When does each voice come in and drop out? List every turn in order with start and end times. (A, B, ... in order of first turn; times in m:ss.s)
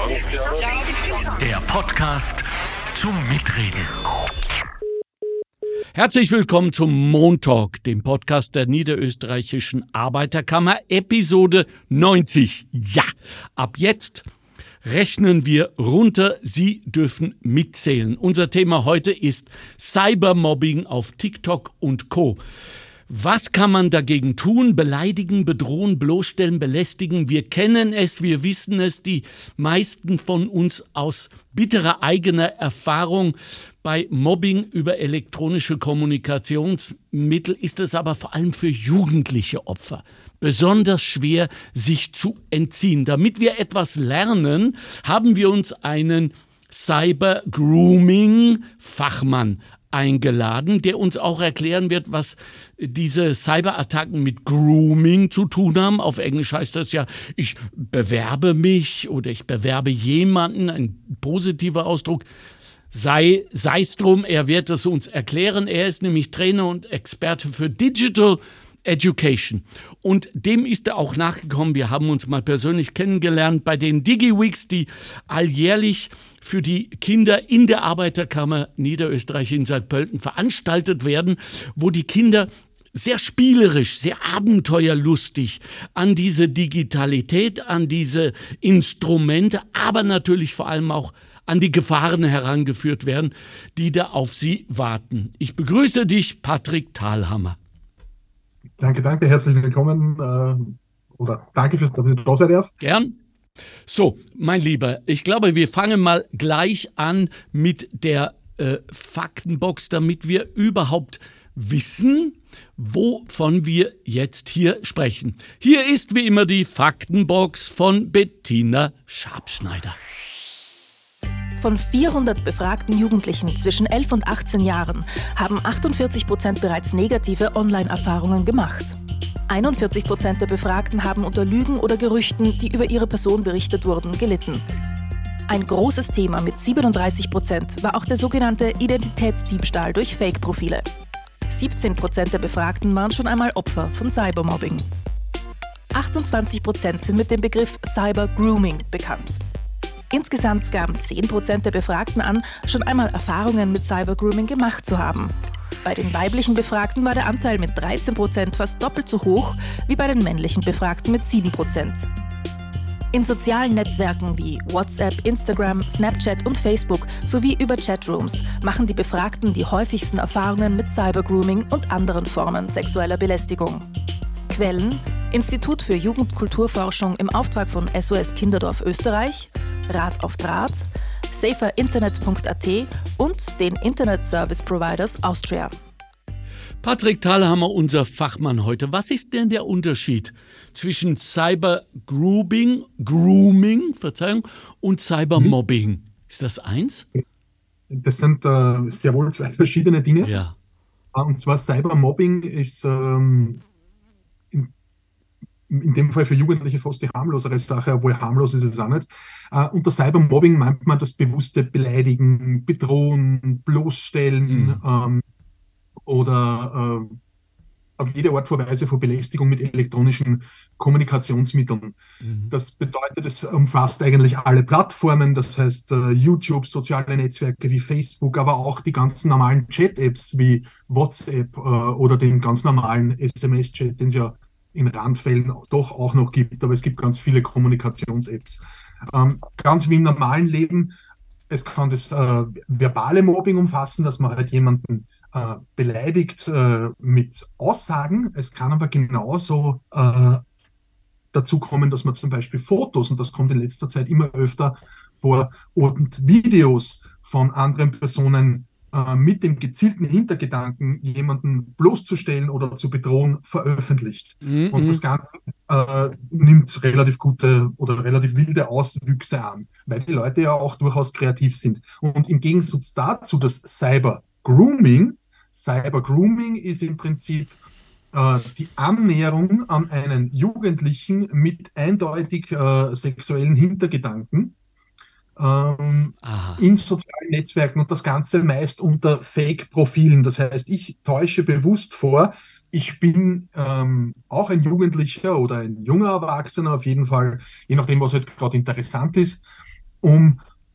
0:01.4-0:02.4 A
0:03.0-0:03.9 A
0:06.0-0:14.2 A
0:14.8-0:22.4 A
0:23.1-1:02.2 A
1:02.9-1:37.6 A
1:38.8-1:42.7 B
1:42.8-1:43.2 A
1:43.9-2:00.0 A
2:01.6-2:09.0 C
2:09.5-2:14.6 C
2:15.5-2:20.8 C
2:21.5-2:24.9 C
2:25.9-2:29.4 C
2:30.1-2:35.3 C
2:35.8-2:42.1 C
2:43.1-2:53.9 C
2:54.5-3:05.7 C
3:06.8-3:17.1 A
3:17.9-3:20.4 B
3:20.2-3:20.6 A
3:21.1-3:23.6 B
3:25.7-3:35.2 B
3:34.5-3:34.8 A
3:36.0-3:37.2 B
3:38.0-3:42.0 B
3:42.2-3:42.5 A
3:42.5-4:00.9 B
4:01.5-4:10.4 B
4:11.3-4:37.6 B
4:24.4-4:25.0 A
4:38.1-4:44.6 B
4:45.4-4:59.4 B
4:46.2-4:46.6 A
5:00.0-5:00.4 B